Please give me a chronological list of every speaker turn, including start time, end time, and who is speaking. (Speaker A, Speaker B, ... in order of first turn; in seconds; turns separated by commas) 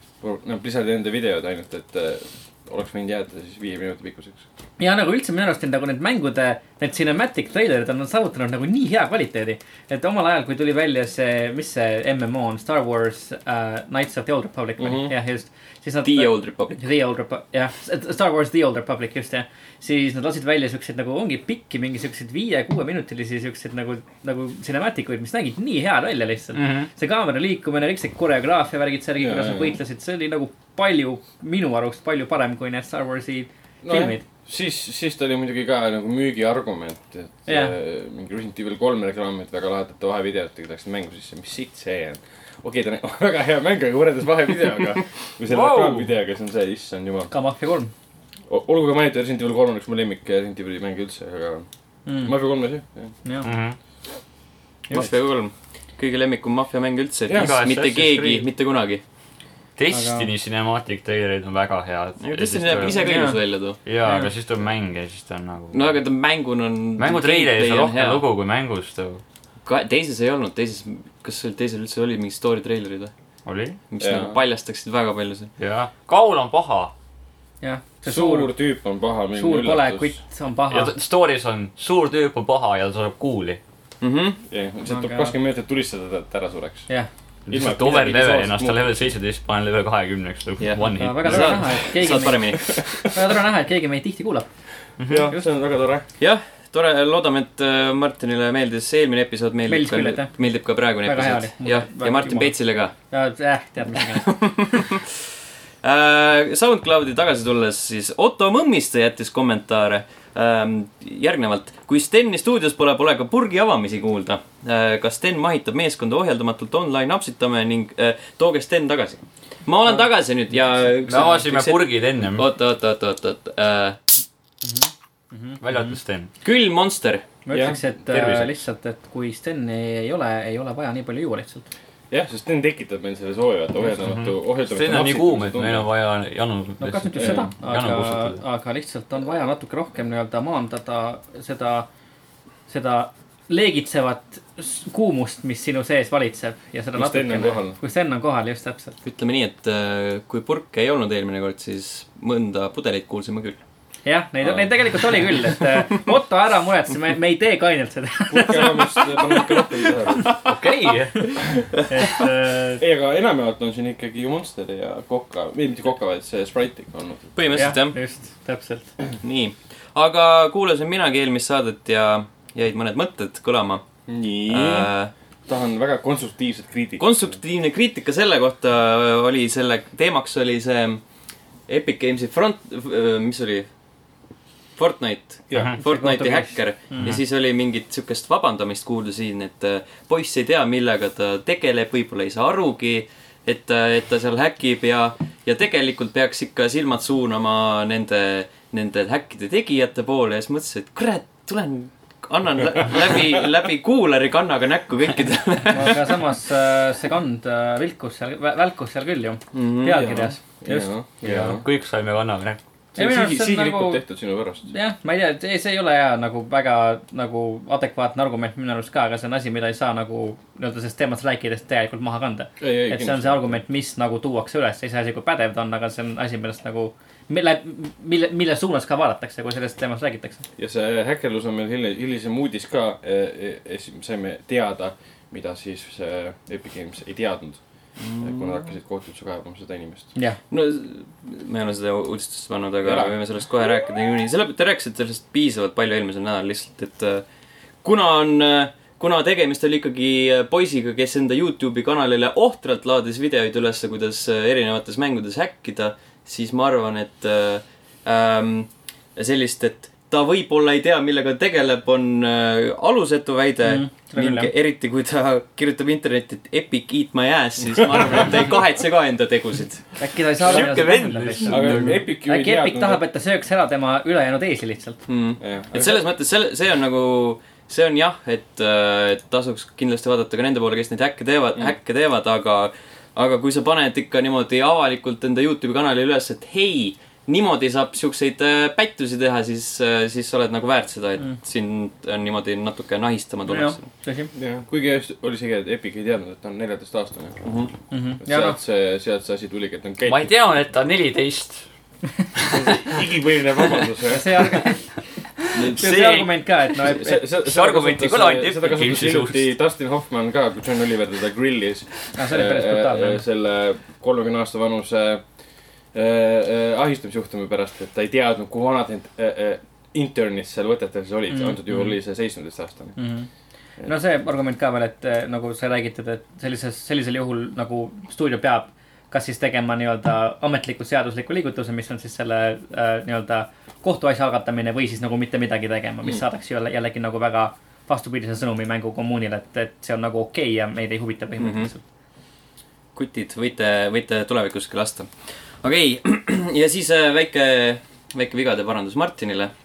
Speaker A: 0.2-4.4, Speaker B: 4.8-34.2, Speaker A: 14.8-15.1, Speaker C: 16.1-16.9, Speaker D: 26.5-26.9, Speaker A: 29.2-29.8, Speaker A: 33.8-47.3, Speaker B: 37.5-37.7, Speaker D: 45.5-46.1, Speaker B: 47.3-47.9, Speaker A: 48.5-51.7, Speaker B: 52.1-52.3, Speaker A: 52.2-53.1, Speaker D: 53.4-53.8, Speaker C: 54.9-59.0, Speaker A: 57.3-57.6, Speaker D: 57.4-58.5, Speaker D: 59.8-63.3, Speaker B: 59.9-60.3, Speaker C: 62.2-63.8, Speaker B: 62.9-63.4, Speaker D: 63.9-66.0, Speaker B: 64.0-64.3, Speaker C: 65.7-68.2, Speaker D: 67.0-69.2, Speaker C: 69.7-73.1, Speaker D: 73.5-73.8, Speaker C: 73.9-75.5, Speaker A: 74.0-74.4, Speaker D: 75.6-76.9, Speaker B: 77.6-78.5, Speaker A: 78.1-80.2, Speaker B: 79.3-80.9, Speaker D: 80.7-83.6, Speaker C: 84.0-84.4, Speaker A: 84.5-86.9, Speaker B: 84.9-85.3, Speaker D: 87.5-91.7, Speaker A: 87.5-88.9, Speaker C: 90.6-92.9, Speaker B: 91.0-92.5, Speaker B: 93.1-94.5, Speaker D: 95.0-95.3, Speaker A: 95.1-96.0, Speaker C: 96.2-102.9, Speaker B: 99.7-100.3, Speaker B: 101.0-102.5, Speaker B: 103.1-104.3, Speaker C: 104.0-105.1, Speaker C: 105.8-124.0, Speaker D: 121.1-122.5, Speaker B: 124.6-125.9, Speaker D: 125.6-126.3, Speaker C: 126.4-127.2, Speaker B: 127.5-131.6, Speaker A: 127.5-127.8, Speaker D: 128.1-128.5, Speaker A: 132.1-135.9, Speaker D: 134.0-138.4, Speaker B: 136.8-141.9, Speaker A: 137.2-137.5, Speaker B: 142.7-148.9, Speaker A: 146.9-147.8, Speaker C: 149.0-153.6, Speaker B: 154.1-160.3, Speaker A: 154.4-154.7, Speaker A: 158.3-160.4, Speaker D: 160.4-161.4, Speaker B: 161.9-162.8, Speaker A: 162.8-167.4, Speaker C: 167.4-168.0, Speaker B: 167.5-168.9, Speaker C: 169.2-173.8, Speaker A: 174.1-174.9, Speaker C: 174.5-175.1, Speaker A: 175.5-177.2, Speaker C: 177.0-181.0, Speaker C: 181.7-183.7, Speaker C: 184.8-206.1, Speaker B: 185.8-187.2, Speaker B: 205.7-210.9, Speaker C: 209.5-210.3, Speaker A: 209.9-211.6, Speaker D: 211.2-212.6, Speaker B: 212.9-214.0, Speaker A: 212.9-214.7, Speaker B: 214.7-230.4, Speaker A: 222.6-223.6, Speaker A: 230.6-237.6, Speaker C: 238.0-238.6, Speaker A: 238.2-240.1, Speaker C: 240.5-247.2, Speaker A: 242.8-243.1, Speaker C: 247.8-269.9, Speaker B: 263.6-264.5, Speaker B: 270.0-275.0, Speaker C: 270.4-271.9, Speaker D: 270.4-272.0, Speaker A: 271.5-273.0, Speaker C: 275.1-293.9, Speaker A: 275.4-276.1, Speaker B: 293.5-294.3, Speaker A: 294.3-297.4, Speaker C: 297.4-297.7, Speaker B: 297.9-298.6, Speaker A: 298.2-300.3, Speaker D: 300.1-301.6, Speaker D: 302.4-303.0, Speaker A: 302.5-304.6, Speaker B: 304.1-304.9, Speaker A: 305.5-306.2, Speaker D: 305.6-306.3, Speaker B: 305.7-307.3, Speaker A: 306.8-315.2, Speaker D: 307.5-309.4, Speaker B: 312.1-313.2, Speaker A: 315.9-323.0, Speaker B: 321.3-321.6, Speaker B: 323.0-323.3, Speaker B: 323.9-341.8, Speaker C: 341.4-341.7, Speaker C: 342.9-345.1, Speaker C: 345.6-349.5